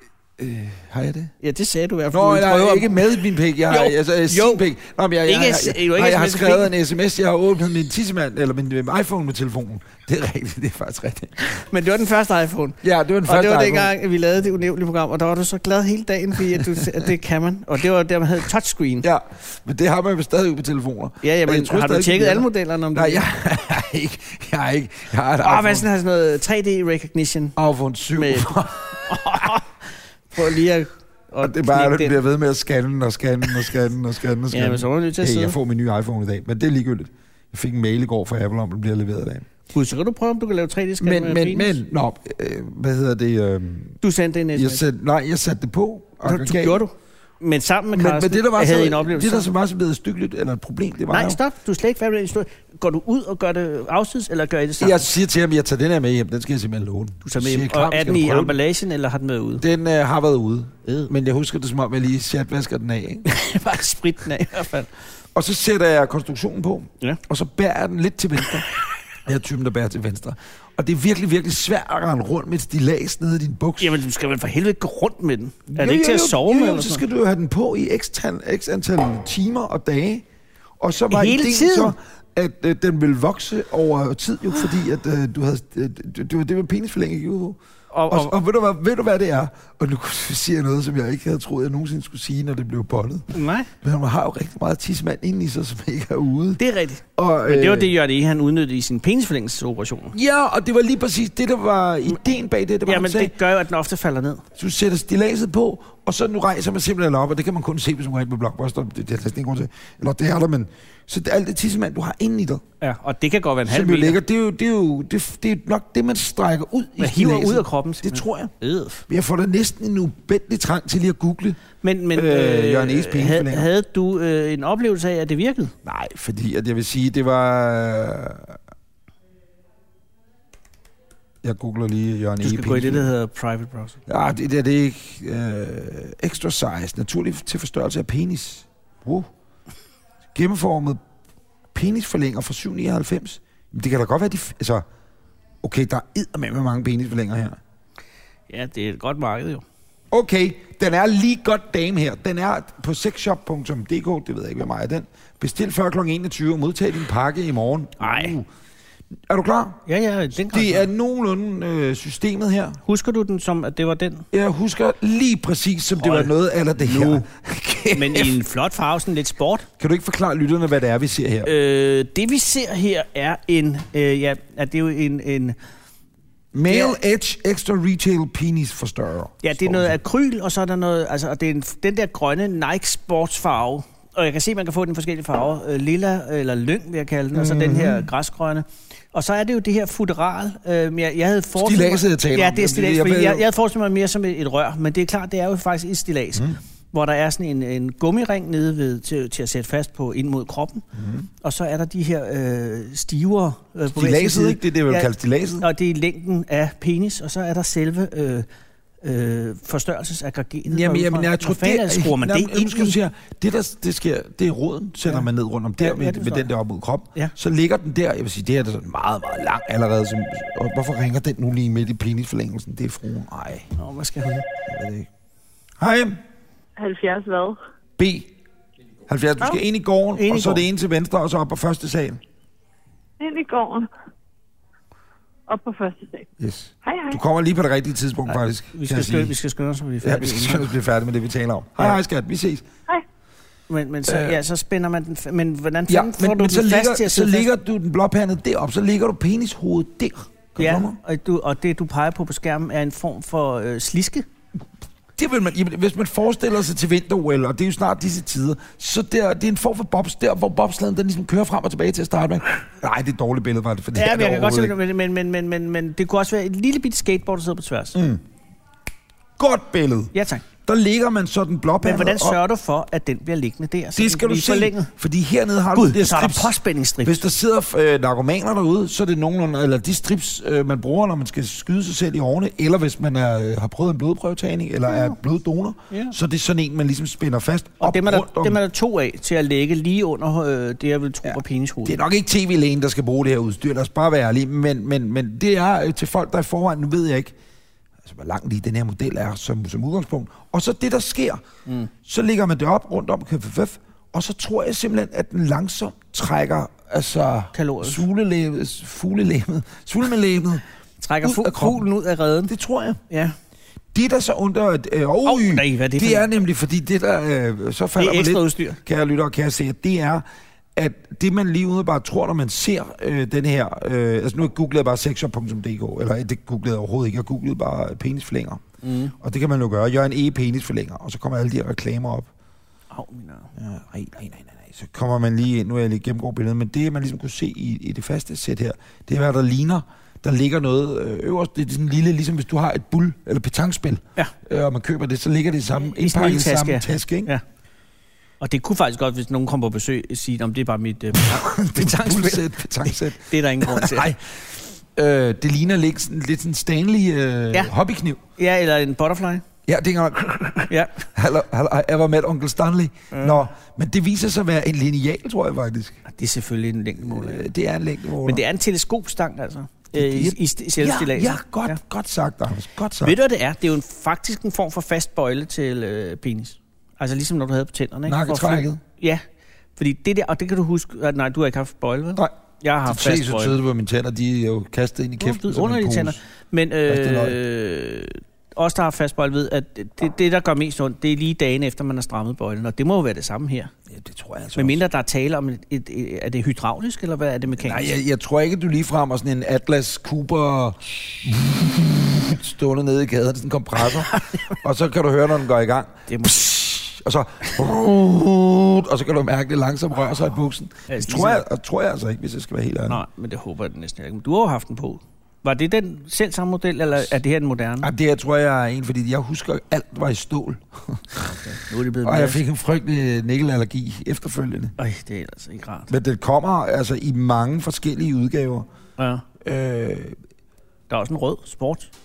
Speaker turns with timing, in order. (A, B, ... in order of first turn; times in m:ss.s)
0:00.4-0:01.3 A
0:01.4-0:04.6 B
0:02.1-0:11.6 A
0:05.2-0:06.7 B
0:11.4-0:19.1 B
0:12.8-0:13.9 A
0:16.6-0:16.9 A
0:19.0-0:25.9 A
0:21.2-0:23.2 B
0:25.4-0:27.6 B
0:27.6-0:29.2 A
0:28.2-0:29.8 B
0:30.3-0:32.2 B
0:31.4-0:39.5 A
0:34.5-0:35.6 B
0:39.7-0:41.8 B
0:41.0-0:44.0 A
0:44.0-0:44.9 B
0:44.6-0:46.8 A
0:46.2-0:49.5 B
0:47.9-0:51.4 A
0:51.1-0:55.1 B
0:54.8-0:58.6 A
0:57.2-0:59.6 B
0:59.6-1:03.3 A
1:03.3-1:04.9 B
1:05.3-1:08.7 A
1:09.2-1:14.0 A
1:13.8-1:17.0 B
1:15.7-1:20.3 A
1:20.8-1:27.6 A
1:21.1-1:22.0 B
1:27.9-1:28.3 B
1:28.1-1:36.6 A
1:33.3-1:33.7 B
1:36.6-1:40.2 B
1:37.2-1:37.9 A
1:40.1-1:43.3 A
1:42.9-1:44.4 B
1:44.6-1:52.6 A
1:52.8-1:54.2 B
1:53.6-1:58.5 A
1:57.0-1:59.0 B
1:59.1-2:01.6 A
2:01.8-2:05.7 B
2:02.1-2:03.7 A
2:05.8-2:08.6 A
2:11.4-2:13.1 A
2:12.4-2:14.0 B
2:14.1-2:19.3 A
2:20.4-2:21.0 A
2:21.7-2:24.8 A
2:25.6-2:27.6 A
2:28.5-2:29.6 B
2:30.1-2:38.5 A
2:38.0-2:38.4 B
2:39.3-2:39.8 A
2:39.9-2:40.9 B
2:40.5-2:42.8 A
2:42.8-2:44.2 B
2:44.3-2:48.4 A
2:46.0-2:47.3 B
2:47.9-2:49.7 B
2:49.8-2:51.5 A
2:51.4-2:55.6 B
2:56.5-2:59.9 A
2:56.7-2:57.0 B
2:59.4-3:20.8 B
3:07.3-3:08.1 A
3:11.6-3:13.4 A
3:21.0-3:21.3 A
3:21.4-3:25.1 B
3:23.9-3:25.7 A
3:25.6-3:28.5 B
3:29.0-3:33.0 B
3:30.7-3:43.7 A
3:35.8-3:36.5 B
3:43.8-3:44.5 B
3:44.7-3:45.1 A
3:45.8-3:46.2 A
3:46.8-3:47.6 C
3:48.0-3:48.3 A
3:49.1-3:52.2 A
3:50.2-3:50.6 B
3:53.2-3:53.9 C
3:55.5-3:56.3 C
3:56.4-3:59.3 A
3:56.8-3:57.2 C
3:58.3-4:00.7 B
4:00.0-4:02.6 A
4:03.7-4:07.5 B
4:04.1-4:04.4 A
4:05.9-4:11.0 A
4:10.6-4:14.3 B
4:15.2-4:24.8 A
4:24.0-4:28.0 B
4:27.9-4:28.2 A
4:29.4-4:30.1 A
4:30.1-4:30.4 B
4:30.7-4:32.4 A
4:31.8-4:34.9 B
4:34.0-4:48.6 A
4:35.7-4:37.2 B
4:47.8-4:52.0 B
4:51.3-4:57.4 A
4:58.0-5:01.4 A
5:02.0-5:10.6 A
5:07.5-5:08.0 B
5:11.0-5:12.5 B
5:11.2-5:11.8 A
5:12.5-5:13.0 A
5:13.1-5:13.4 B
5:13.9-5:20.2 A
5:15.2-5:16.3 B
5:18.0-5:18.8 B
5:20.8-5:28.6 A
5:28.8-5:29.2 B
5:29.2-5:32.3 A
5:32.9-5:33.5 B
5:33.6-5:47.3 A
5:46.0-5:47.4 B
5:48.4-5:52.4 B
5:51.2-5:58.2 A
5:53.2-5:54.1 B
5:58.4-5:59.4 B
5:59.7-6:06.0 A
6:00.7-6:01.0 B
6:03.1-6:03.4 B
6:06.1-6:07.5 B
6:07.0-6:08.4 A
6:08.2-6:11.8 B
6:09.9-6:13.2 A
6:13.0-6:19.2 B
6:18.1-6:18.8 A
6:19.8-6:23.6 B
6:22.9-6:26.2 A
6:25.2-6:33.7 B
6:26.9-6:27.4 A
6:33.9-6:34.8 A
6:34.6-6:38.0 B
6:37.6-6:53.0 A
6:44.1-6:44.5 B
6:46.1-6:46.5 B
6:50.9-6:51.4 B
6:52.9-6:57.9 B
6:57.8-7:01.4 A
7:01.4-7:02.4 B
7:02.0-7:04.7 A
7:04.8-7:05.9 B
7:05.9-7:08.7 A
7:09.0-7:09.2 B
7:09.4-7:10.2 A
7:10.9-7:11.9 B